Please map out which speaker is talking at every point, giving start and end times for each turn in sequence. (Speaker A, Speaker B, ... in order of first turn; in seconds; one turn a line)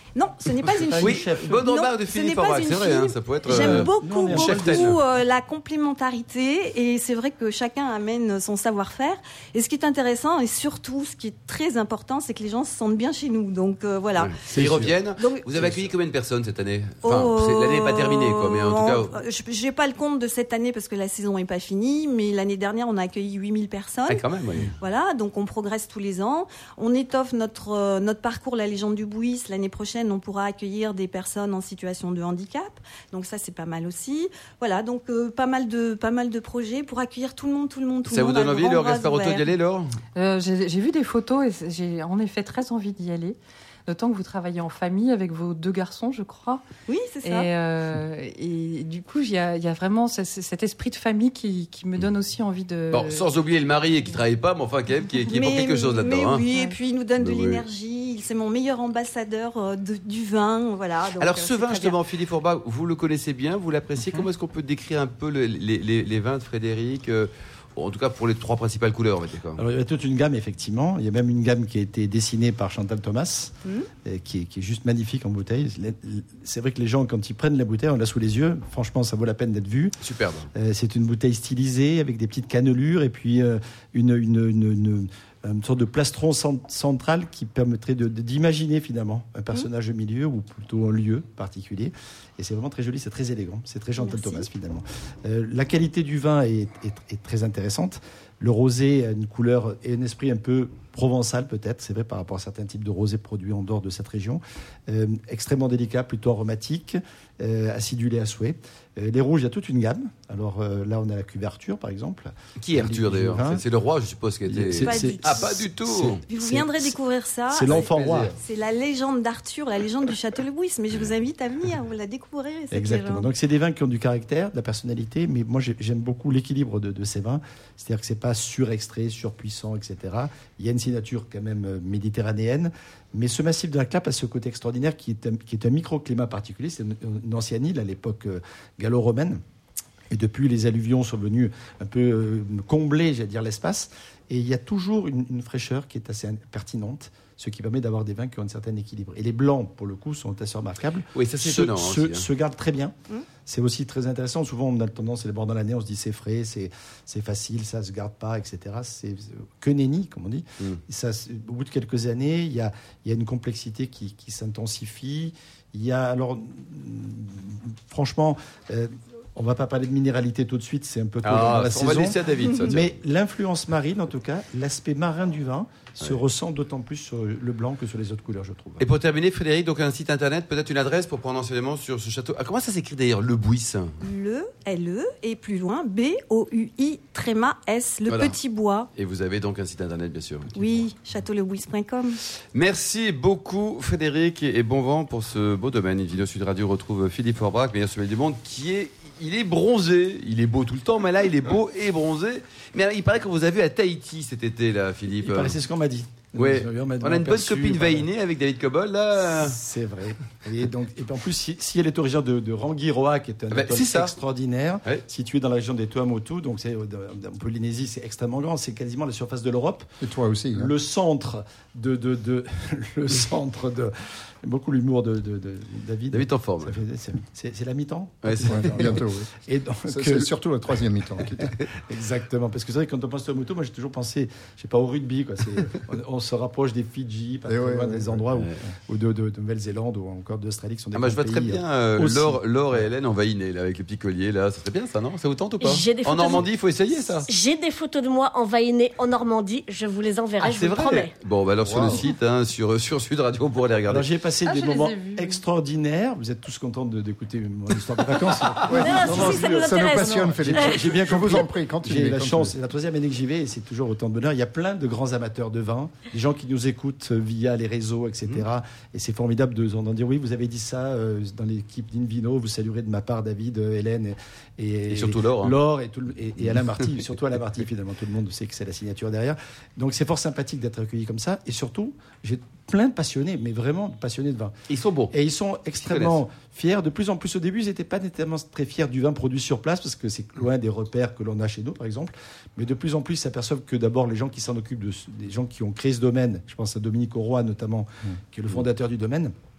Speaker A: 0.1-14.4
Speaker B: 0.6-1.6
Speaker C: 1.0-5.0
Speaker B: 3.5-5.0
Speaker C: 14.2-19.1
Speaker B: 14.5-15.0
Speaker A: 15.2-15.5
Speaker A: 17.0-24.2
Speaker C: 24.1-24.7
Speaker A: 24.8-39.5
Speaker C: 38.1-40.0
Speaker D: 40.1-46.6
Speaker A: 46.9-47.5
Speaker D: 47.2-53.3
Speaker C: 52.9-56.4
Speaker A: 55.3-62.0
Speaker C: 57.2-57.6
Speaker C: 61.2-69.6
Speaker B: 69.6-80.0
Speaker C: 80.0-80.5
Speaker B: 80.5-113.6
Speaker A: 94.0-94.5
Speaker C: 112.6-116.2
Speaker B: 114.5-116.9
Speaker A: 114.8-115.7
Speaker A: 116.3-117.9
Speaker B: 117.5-118.4
Speaker C: 117.7-118.3
Speaker A: 118.4-123.3
Speaker B: 122.7-139.4
Speaker B: 140.1-152.9
Speaker C: 151.2-152.3
Speaker B: 153.5-178.8
Speaker C: 171.2-172.9
Speaker C: 178.8-184.0
Speaker A: 184.0-188.9
Speaker C: 188.1-188.4
Speaker C: 189.0-190.7
Speaker A: 190.6-192.2
Speaker C: 192.5-205.6
Speaker B: 205.2-208.1
Speaker C: 206.4-209.6
Speaker B: 209.2-219.9
Speaker C: 213.5-214.1
Speaker E: 220.0-220.7
Speaker B: 220.5-230.3
Speaker C: 226.1-226.8
Speaker C: 228.2-229.0
Speaker E: 228.5-229.3
Speaker E: 229.9-231.5
Speaker B: 231.9-242.8
Speaker E: 237.5-238.2
Speaker C: 240.9-247.3
Speaker F: 245.6-246.5
Speaker F: 247.3-251.1
Speaker C: 250.4-254.1
Speaker E: 251.7-252.1
Speaker B: 253.9-284.6
Speaker D: 254.4-255.4
Speaker C: 258.6-259.1
Speaker E: 258.7-262.5
Speaker F: 258.7-260.8
Speaker C: 274.9-275.5
Speaker C: 284.7-285.1
Speaker B: 285.1-299.3
Speaker C: 285.8-286.2